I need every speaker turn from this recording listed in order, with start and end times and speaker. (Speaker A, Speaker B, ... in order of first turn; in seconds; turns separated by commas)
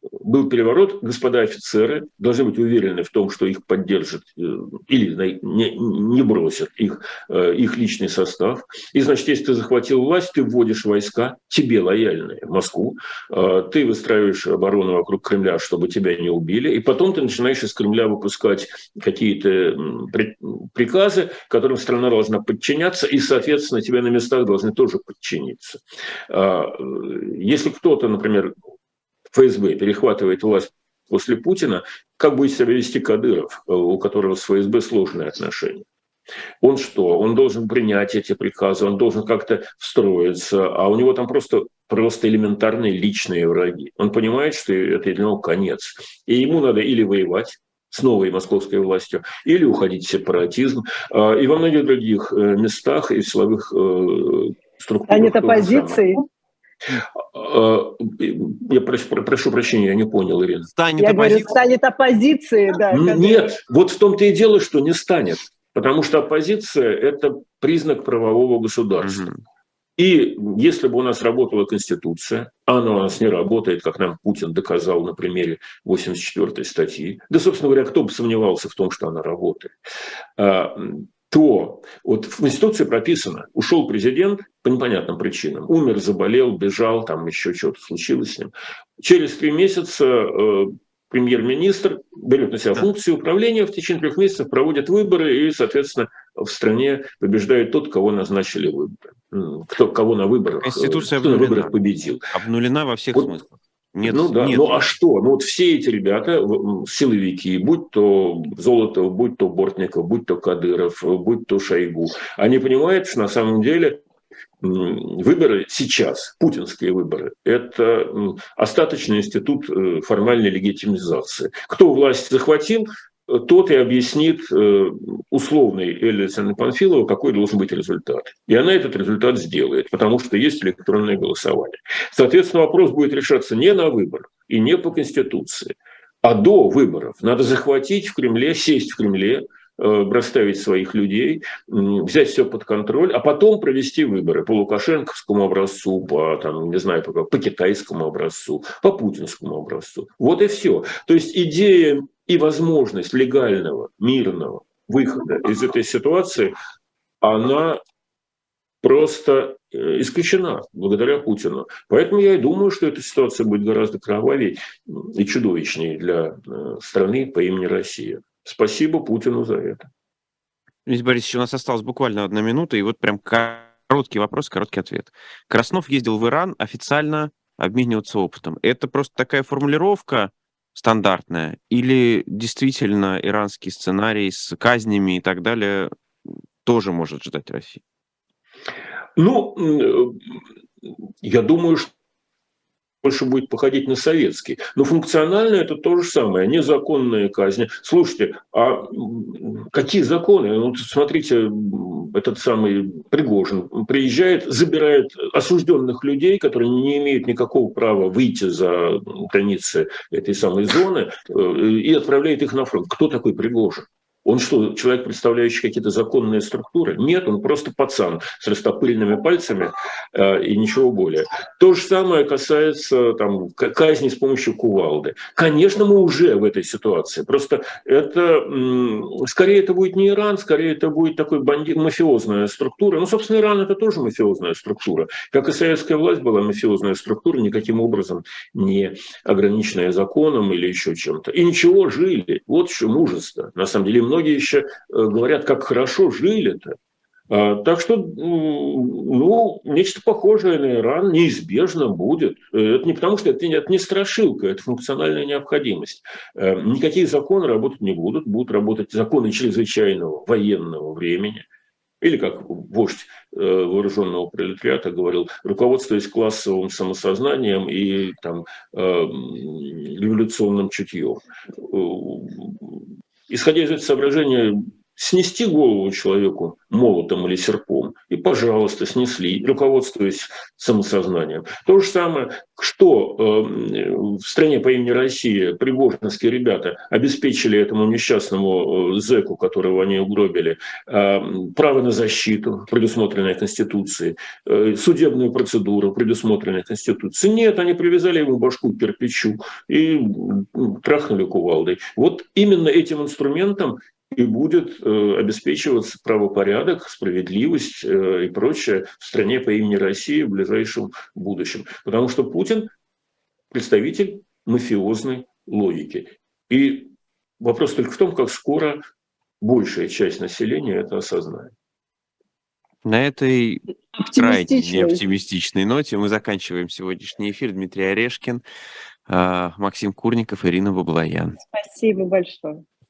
Speaker A: 0.2-28.5, Speaker A: 29.3-35.9, Speaker A: 36.6-56.0, Speaker B: 55.1-56.2, Speaker A: 57.0-60.7, Speaker C: 60.7-61.5, Speaker B: 61.0-63.5, Speaker A: 62.9-69.2, Speaker C: 69.0-69.4, Speaker A: 70.0-79.7, Speaker A: 80.4-102.3, Speaker C: 100.6-101.7, Speaker C: 102.3-104.8, Speaker A: 104.0-114.0, Speaker A: 114.6-156.5, Speaker A: 157.2-157.8, Speaker A: 158.8-169.9, Speaker C: 170.8-185.9, Speaker C: 186.6-187.8, Speaker A: 189.2-191.9, Speaker A: 193.0-246.8, Speaker A: 247.3-261.4, Speaker A: 262.0-312.7, Speaker A: 313.5-318.8, Speaker A: 319.4-321.5, Speaker C: 322.8-328.4, Speaker B: 323.9-325.0, Speaker C: 329.1-331.4, Speaker B: 331.5-332.6